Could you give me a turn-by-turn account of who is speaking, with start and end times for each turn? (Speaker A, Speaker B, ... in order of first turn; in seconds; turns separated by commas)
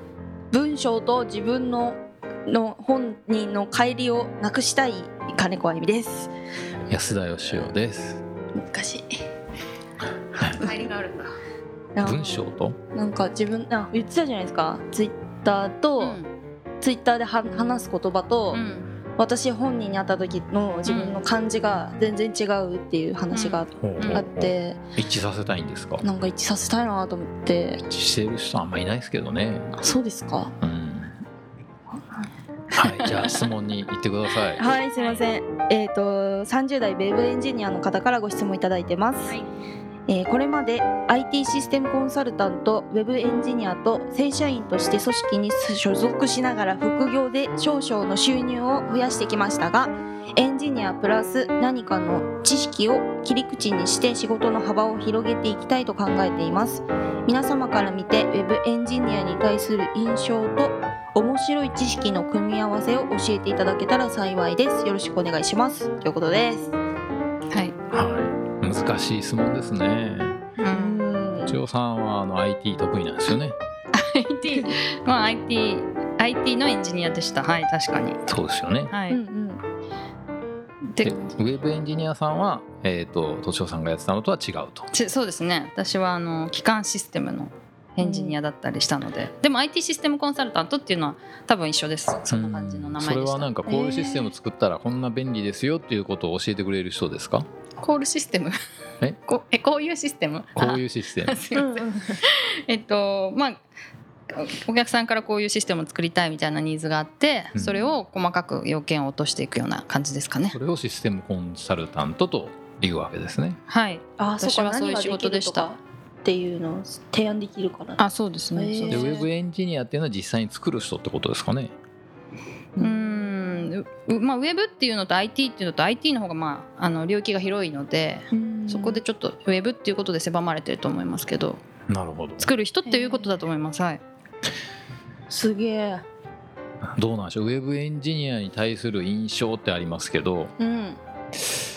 Speaker A: 0.5-6.3, Speaker B: 6.9-8.2, Speaker A: 8.6-9.0, Speaker C: 10.6-11.3, Speaker A: 11.9-12.2, Speaker B: 12.0-12.8, Speaker A: 12.9-16.2, Speaker C: 16.0-16.3, Speaker A: 16.8-18.6, Speaker C: 18.5-18.9, Speaker A: 19.2-24.8, Speaker C: 20.9-21.2, Speaker C: 23.3-24.3, Speaker B: 23.8-26.0, Speaker A: 26.0-27.8, Speaker B: 27.9-29.7, Speaker A: 29.8-30.5, Speaker B: 30.6-31.2, Speaker B: 32.7-34.6, Speaker A: 34.6-39.3, Speaker C: 34.9-35.2, Speaker A: 40.1-66.7, Speaker C: 67.5-67.8, Speaker B: 67.9-70.4, Speaker C: 70.6-71.1, Speaker A: 70.8-71.5, Speaker B: 71.5-73.5, Speaker C: 73.9-78.2, Speaker B: 78.3-78.9, Speaker C: 78.9-79.2, Speaker A: 79.1-79.6, Speaker C: 80.9-81.2, Speaker B: 81.0-84.9, Speaker C: 84.9-93.5, Speaker A: 88.0-88.4, Speaker B: 92.3-97.5, Speaker A: 93.7-94.3, Speaker C: 97.8-98.5, Speaker C: 99.2-103.6, Speaker B: 100.5-101.4, Speaker A: 101.5-101.9, Speaker C: 104.3-110.6, Speaker B: 107.5-107.9, Speaker B: 110.5-113.6, Speaker C: 113.7-115.7, Speaker A: 114.2-118.0, Speaker C: 118.0-119.2, Speaker A: 118.5-119.1, Speaker B: 118.9-121.7, Speaker A: 122.8-123.7, Speaker C: 122.8-131.6, Speaker A: 128.3-129.0, Speaker B: 131.9-132.5, Speaker C: 132.4-134.0, Speaker A: 132.9-133.3, Speaker A: 135.3-136.0, Speaker B: 137.0-140.5, Speaker A: 140.6-141.0